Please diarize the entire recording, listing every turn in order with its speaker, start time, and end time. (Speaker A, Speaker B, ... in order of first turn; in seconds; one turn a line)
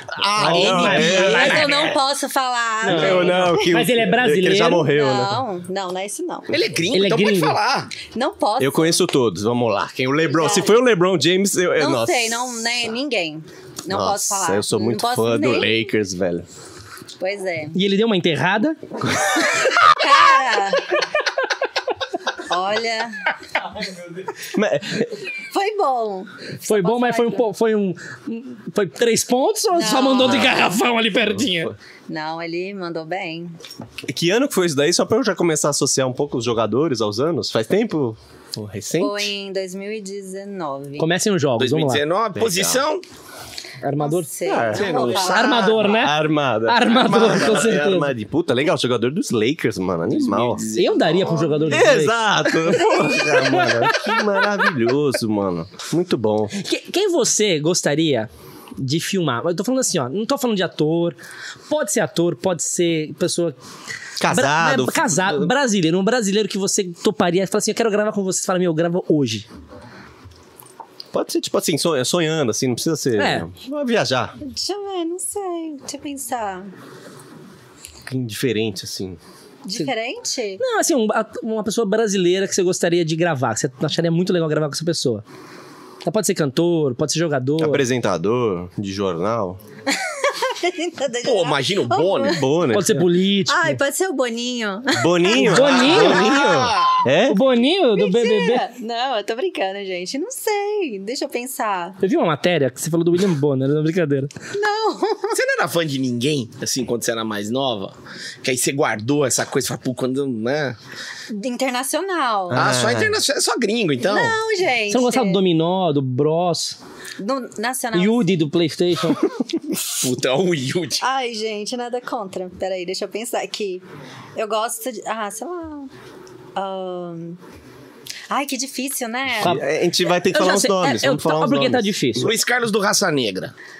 Speaker A: 0.1-1.7
Speaker B: 0.3-1.9
Speaker C: 0.4-2.0
Speaker D: 1.0-3.8
Speaker C: 2.8-4.9
Speaker A: 2.8-5.4
Speaker D: 4.8-6.6
Speaker B: 6.5-7.9
Speaker C: 6.9-7.6
Speaker D: 8.1-9.0
Speaker A: 8.6-12.6
Speaker D: 10.3-10.8
Speaker D: 11.8-15.8
Speaker A: 13.9-16.4
Speaker D: 17.2-17.8
Speaker C: 17.7-18.8
Speaker D: 19.9-21.0
Speaker D: 22.5-23.3
Speaker A: 24.4-25.1
Speaker D: 25.5-27.4
Speaker C: 26.6-31.7
Speaker D: 29.7-30.7
Speaker A: 31.3-31.7
Speaker D: 32.1-33.5
Speaker A: 34.1-39.3
Speaker D: 39.0-41.1
Speaker C: 41.0-42.0
Speaker B: 41.6-43.0
Speaker A: 42.3-42.8
Speaker C: 43.8-44.3
Speaker D: 44.0-45.6
Speaker A: 44.5-50.6
Speaker B: 44.7-45.3
Speaker C: 45.2-48.1
Speaker B: 47.3-47.6
Speaker B: 50.1-51.7
Speaker C: 50.8-54.2
Speaker A: 51.7-56.5
Speaker C: 56.5-61.2
Speaker C: 61.7-63.5
Speaker A: 64.2-65.5
Speaker C: 64.2-69.5
Speaker A: 71.1-74.3
Speaker C: 73.2-73.5
Speaker D: 74.4-76.7
Speaker A: 78.1-79.2
Speaker D: 79.6-80.6
Speaker C: 80.6-85.2
Speaker C: 86.0-87.8
Speaker A: 87.6-89.6
Speaker D: 89.9-92.6
Speaker B: 91.2-92.4
Speaker A: 92.2-93.0
Speaker C: 92.7-93.8
Speaker D: 93.5-95.9
Speaker A: 94.9-97.4
Speaker C: 95.3-96.2
Speaker B: 95.5-97.0
Speaker C: 97.3-98.6
Speaker D: 97.9-102.0
Speaker C: 102.0-104.3
Speaker D: 104.5-105.4
Speaker B: 105.3-110.8
Speaker D: 111.3-112.7
Speaker A: 112.5-113.2
Speaker B: 112.5-114.4
Speaker D: 114.0-115.4
Speaker C: 114.9-116.8
Speaker D: 117.2-118.4
Speaker C: 117.9-119.3
Speaker B: 120.0-121.0
Speaker D: 121.0-123.8
Speaker D: 124.3-125.9
Speaker D: 126.5-127.4
Speaker D: 128.3-129.6
Speaker A: 129.4-131.9
Speaker C: 130.3-132.3
Speaker B: 132.2-133.5